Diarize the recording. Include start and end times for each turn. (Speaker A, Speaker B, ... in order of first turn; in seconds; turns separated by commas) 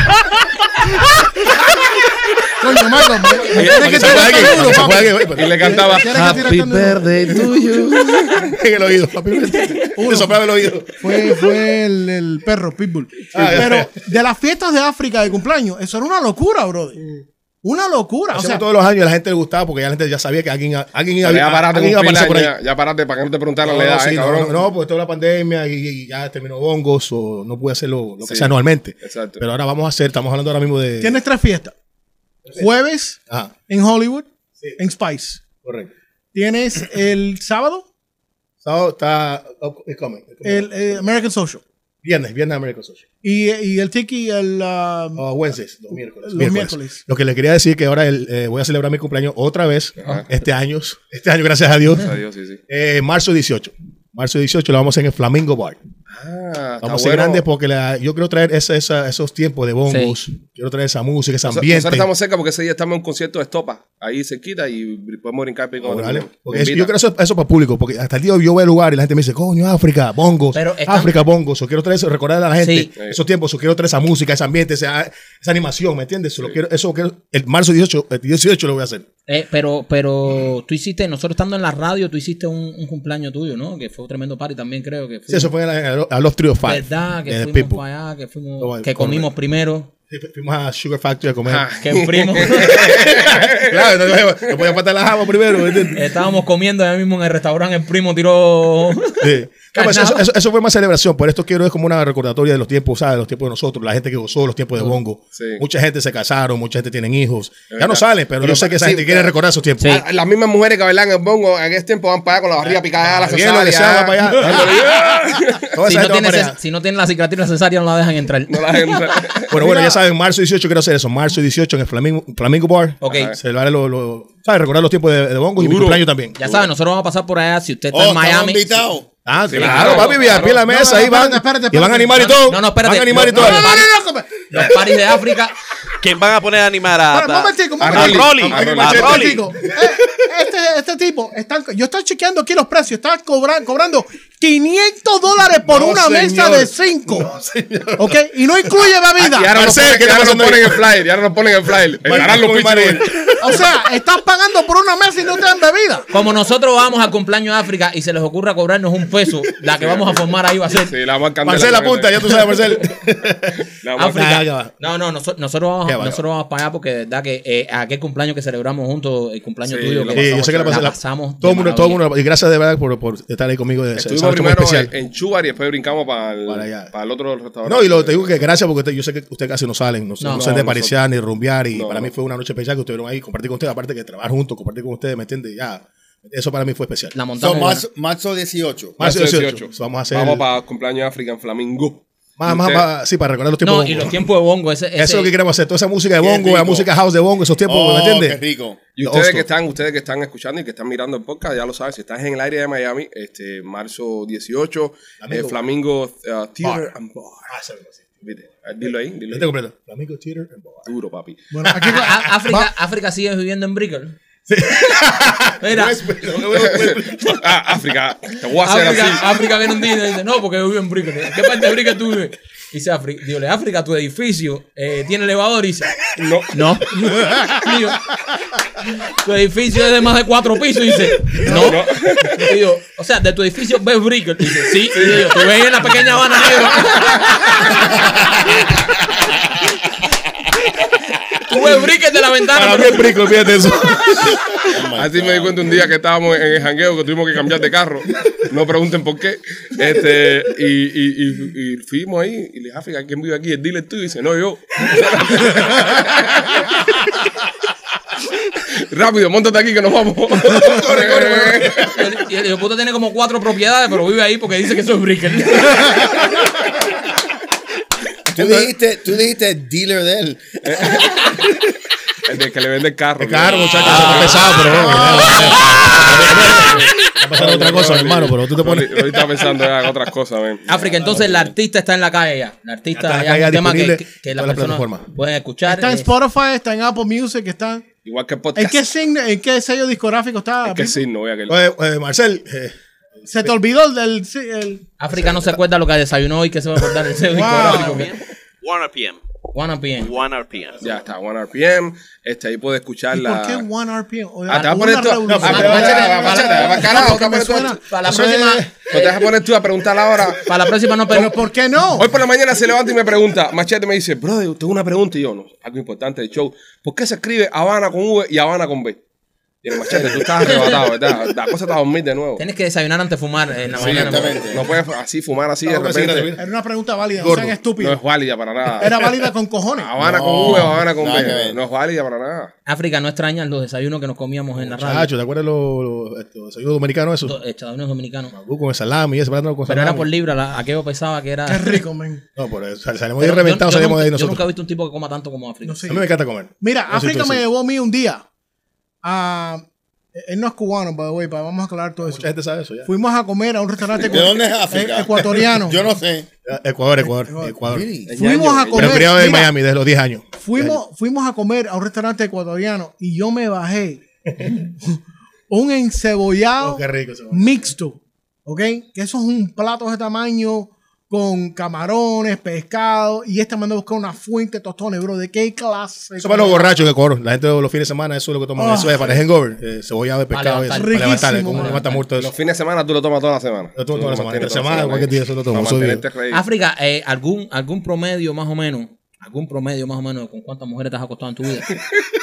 Speaker A: 2.6-7.4, Speaker B: 3.3-6.4, Speaker C: 3.5-4.8, Speaker C: 5.3-8.5, Speaker B: 8.3-11.0, Speaker A: 10.0-10.4, Speaker A: 11.0-18.6, Speaker B: 13.3-13.9, Speaker B: 18.3-22.5, Speaker C: 21.2-24.6, Speaker B: 23.6-31.2, Speaker C: 28.2-29.4, Speaker A: 31.0-31.7, Speaker A: 32.5-35.4, Speaker B: 35.6-35.9, Speaker A: 36.3-37.9, Speaker B: 38.6-41.1, Speaker A: 40.4-41.6, Speaker B: 42.0-43.0, Speaker A: 43.2-45.2, Speaker B: 45.1-52.1, Speaker A: 46.0-47.0, Speaker C: 50.0-50.2, Speaker C: 52.0-52.6, Speaker B: 52.7-55.8, Speaker C: 56.1-57.4, Speaker B: 56.8-62.1, Speaker D: 59.9-60.1, Speaker C: 61.5-66.9, Speaker B: 65.8-79.0, Speaker D: 70.5-71.1, Speaker D: 72.6-72.9, Speaker D: 79.3-85.5, Speaker B: 85.3-87.8, Speaker D: 86.6-89.9, Speaker B: 88.6-89.3, Speaker B: 90.1-91.7, Speaker C: 91.5-94.6, Speaker D: 91.8-92.9, Speaker B: 92.5-96.0, Speaker D: 95.9-100.2, Speaker B: 99.2-110.0, Speaker C: 105.3-105.6, Speaker C: 107.7-115.7, Speaker B: 112.6-116.6, Speaker D: 115.8-119.3, Speaker C: 118.5-119.5, Speaker B: 119.5-126.3, Speaker D: 123.0-123.3, Speaker C: 123.0-123.3, Speaker C: 125.6-126.6, Speaker D: 126.4-128.8, Speaker E: 127.9-129.1, Speaker B: 129.2-133.8, Speaker C: 129.5-130.6, Speaker D: 129.5-130.2, Speaker A: 130.6-132.4, Speaker D: 132.3-133.9, Speaker A: 133.3-134.6, Speaker D: 134.5-135.6, Speaker F: 136.0-139.4, Speaker A: 137.1-147.3, Speaker C: 137.8-139.2, Speaker B: 138.4-140.2, Speaker B: 145.6-148.8, Speaker A: 148.0-149.5, Speaker C: 149.2-153.1, Speaker B: 149.4-150.8, Speaker B: 152.0-153.7, Speaker A: 153.4-156.1, Speaker D: 156.1-160.9, Speaker C: 159.7-162.4, Speaker B: 161.4-163.6, Speaker C: 163.7-164.3, Speaker D: 163.9-172.0, Speaker B: 164.1-164.7, Speaker B: 165.8-166.2, Speaker C: 169.7-170.8, Speaker B: 170.1-174.9, Speaker C: 173.9-178.4, Speaker B: 176.5-176.9, Speaker B: 177.6-187.2, Speaker D: 180.2-180.4, Speaker C: 180.3-181.0, Speaker C: 181.7-182.1, Speaker D: 187.1-187.8, Speaker E: 187.3-189.0, Speaker B: 189.0-190.4, Speaker C: 189.0-192.8, Speaker B: 192.4-194.2, Speaker D: 193.6-195.3, Speaker B: 195.0-198.4, Speaker C: 196.2-196.8, Speaker E: 197.7-198.8, Speaker C: 198.9-207.5, Speaker B: 199.0-199.5, Speaker B: 205.2-205.6, Speaker B: 206.6-206.9, Speaker B: 207.5-208.4, Speaker C: 208.2-209.5, Speaker B: 209.3-210.9, Speaker C: 210.8-211.4, Speaker A: 211.5-212.2, Speaker B: 211.7-212.7, Speaker D: 211.8-214.2, Speaker B: 214.5-217.4, Speaker D: 215.6-216.0, Speaker C: 216.5-219.2, Speaker D: 218.6-225.9, Speaker C: 226.2-226.5, Speaker D: 226.5-228.2, Speaker D: 228.8-237.6, Speaker A: 231.4-231.7, Speaker C: 231.5-232.5, Speaker C: 234.9-235.4, Speaker D: 241.4-243.1, Speaker B: 242.5-244.4, Speaker E: 244.7-245.6, Speaker C: 244.9-257.0, Speaker C: 258.7-261.9, Speaker B: 260.4-262.1, Speaker D: 261.9-266.1, Speaker E: 268.3-270.9, Speaker B: 268.4-268.7, Speaker C: 270.6-271.6, Speaker C: 272.2-280.7, Speaker B: 273.2-279.5, Speaker D: 273.8-274.7, Speaker D: 280.6-286.1, Speaker B: 282.9-285.0, Speaker A: 285.7-287.8, Speaker C: 288.0-288.9, Speaker A: 288.5-291.0, Speaker C: 290.6-291.6, Speaker B: 291.5-293.5, Speaker A: 293.3-294.8, Speaker D: 295.0-298.1, Speaker B: 295.1-295.5, Speaker A: 297.2-298.1, Speaker F: 297.5-299.2, Speaker D: 299.5-300.1, Speaker F: 300.0-300.8, Speaker C: 300.8-303.6, Speaker A: 303.1-307.8, Speaker C: 304.5-307.8, Speaker B: 305.3-306.4, Speaker D: 305.4-307.0, Speaker D: 307.9-309.2, Speaker B: 308.0-308.9, Speaker C: 308.9-310.5, Speaker D: 310.4-311.3, Speaker A: 311.1-312.1, Speaker C: 312.0-319.0, Speaker C: 319.6-322.4, Speaker B: 319.9-320.1, Speaker D: 322.4-324.5, Speaker C: 323.8-326.3, Speaker E: 323.8-324.6, Speaker B: 325.6-326.4, Speaker A: 326.4-328.0, Speaker B: 327.2-327.6, Speaker C: 327.8-329.0, Speaker A: 328.8-329.9, Speaker B: 328.8-329.2, Speaker C: 329.8-332.5, Speaker E: 330.0-331.6, Speaker B: 330.4-331.2, Speaker D: 332.6-335.1, Speaker B: 334.6-337.4, Speaker D: 337.2-338.3, Speaker B: 338.3-340.1, Speaker D: 339.6-341.8, Speaker A: 341.5-342.2, Speaker B: 342.4-344.4, Speaker D: 343.2-345.9, Speaker A: 345.6-346.1, Speaker B: 345.9-347.4, Speaker A: 346.6-348.2, Speaker A: 349.0-352.3, Speaker B: 352.0-352.9, Speaker A: 352.8-355.8, Speaker E: 354.1-356.3, Speaker B: 356.4-357.9, Speaker A: 357.3-357.6, Speaker E: 357.7-358.1, Speaker C: 358.1-359.1, Speaker A: 358.1-359.5, Speaker B: 358.7-360.8, Speaker A: 360.4-376.7, Speaker B: 366.6-367.6, Speaker B: 376.2-382.3, Speaker A: 378.6-379.1, Speaker D: 380.3-382.0, Speaker A: 380.7-381.8, Speaker C: 382.2-386.4, Speaker B: 383.7-386.0, Speaker D: 386.3-391.7